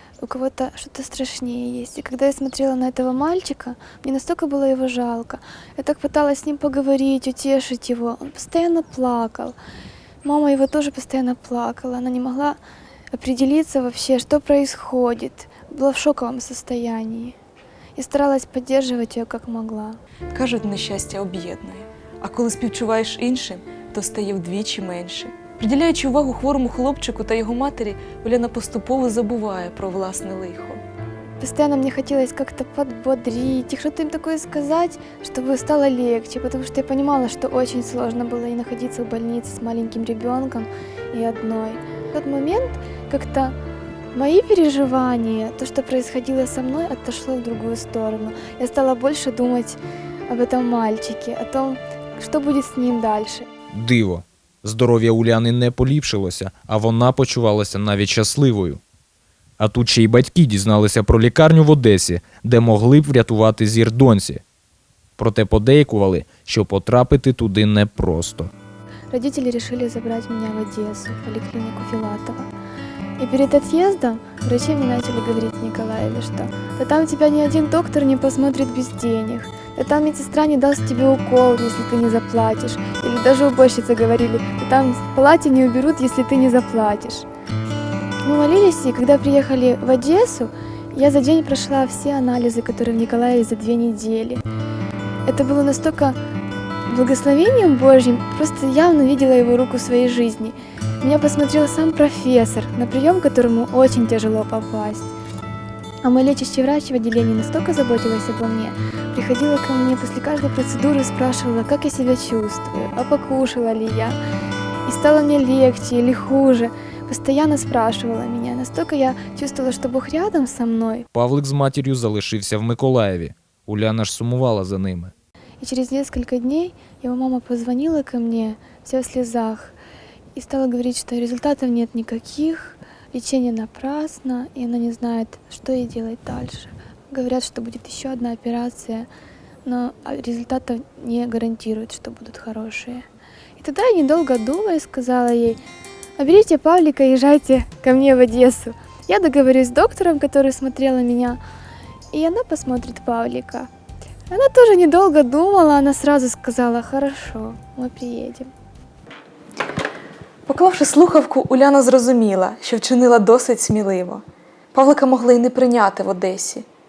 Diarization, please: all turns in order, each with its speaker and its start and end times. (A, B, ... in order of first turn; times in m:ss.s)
0:00.2-0:09.6 A
0:10.2-0:12.6 A
0:13.1-0:17.4 A
0:18.0-0:20.0 A
0:20.3-0:30.8 B
0:31.4-0:43.6 A
0:44.1-0:53.5 A
0:53.7-0:58.8 C
0:59.6-1:04.4 C
1:05.2-1:08.5 C
1:09.1-1:12.5 A
1:13.2-1:27.2 A
1:28.2-1:34.4 A
1:35.2-1:36.2 A
1:36.8-1:45.1 A
1:46.0-1:54.2 A
1:54.8-2:01.0 A
2:01.1-2:05.1 C
2:05.6-2:09.8 A
2:10.3-2:19.1 A
2:19.6-2:23.0 A
2:23.6-2:25.6 A
2:26.2-2:31.4 A
2:32.1-2:33.7 A
2:34.3-2:38.5 A
2:40.4-2:44.2 B
2:44.7-2:46.6 B